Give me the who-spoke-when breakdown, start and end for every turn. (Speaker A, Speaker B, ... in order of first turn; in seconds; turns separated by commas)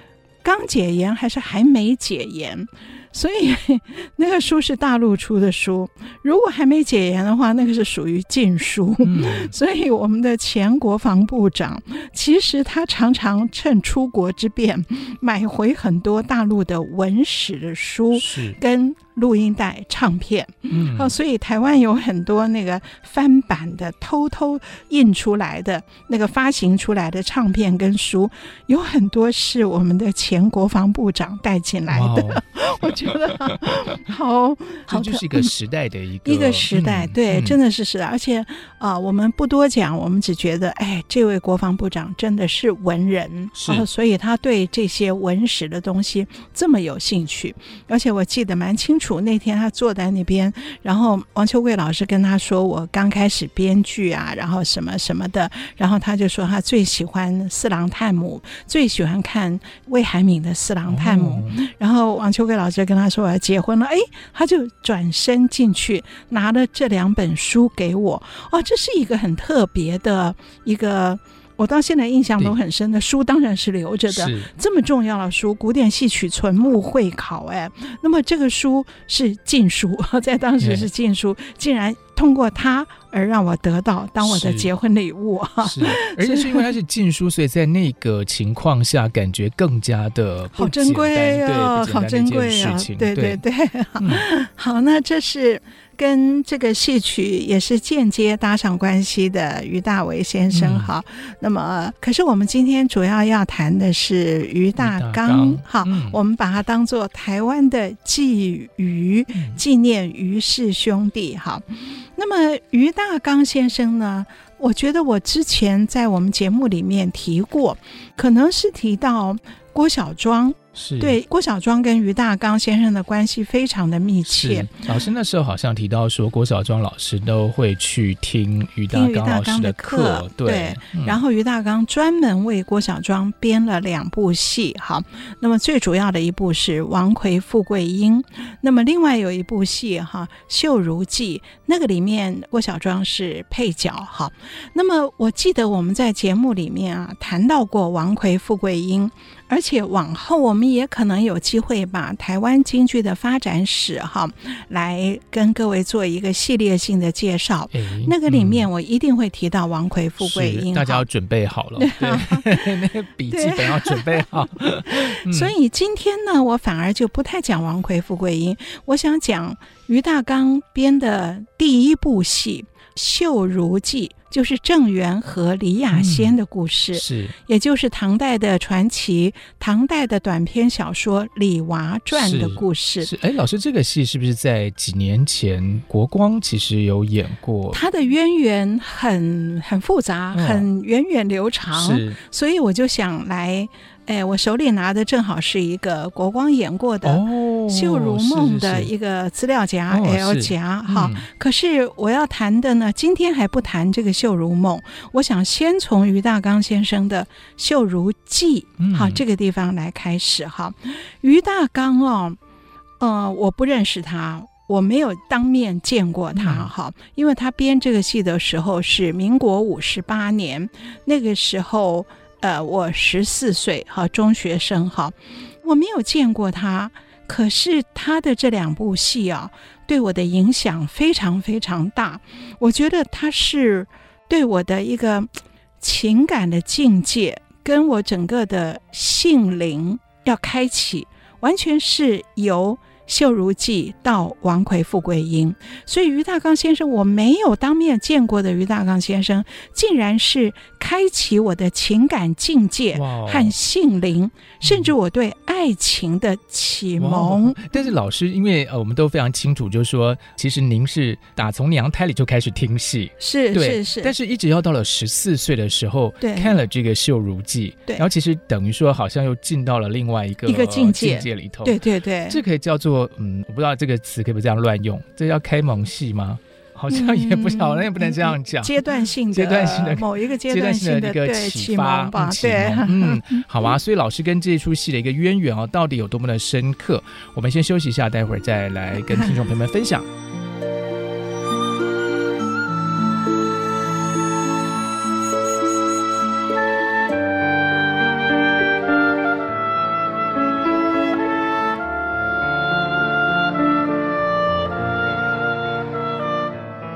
Speaker A: 0.4-35.5, Speaker B: 9.0-9.5, Speaker B: 18.1-18.6, Speaker B: 20.7-21.1, Speaker B: 31.9-33.6, Speaker B: 34.9-37.6, Speaker A: 36.2-86.7, Speaker B: 43.5-43.9, Speaker B: 60.9-61.6, Speaker B: 74.1-74.5, Speaker B: 80.6-80.9, Speaker B: 84.2-84.7, Speaker B: 85.6-93.4, Speaker A: 90.6-124.8, Speaker B: 94.0-94.3, Speaker B: 100.5-100.9, Speaker B: 104.8-106.2, Speaker B: 120.8-121.2, Speaker B: 124.3-131.2, Speaker A: 128.9-161.1, Speaker B: 157.7-158.7, Speaker B: 160.2-165.5, Speaker A: 161.8-162.7, Speaker A: 163.3-183.1, Speaker B: 175.9-176.3, Speaker B: 176.9-177.4, Speaker B: 182.1-187.8, Speaker A: 187.7-212.4, Speaker B: 190.3-190.7, Speaker B: 191.7-192.2, Speaker B: 197.0-198.9, Speaker B: 199.9-201.3, Speaker B: 208.8-209.2, Speaker A: 213.0-235.3, Speaker B: 216.4-216.7, Speaker A: 235.8-257.9, Speaker B: 252.9-253.5, Speaker B: 254.6-254.9, Speaker B: 257.0-271.8, Speaker A: 263.2-264.1, Speaker A: 266.2-266.6, Speaker A: 270.5-272.4, Speaker B: 272.3-278.8, Speaker A: 276.9-283.4, Speaker B: 279.3-290.1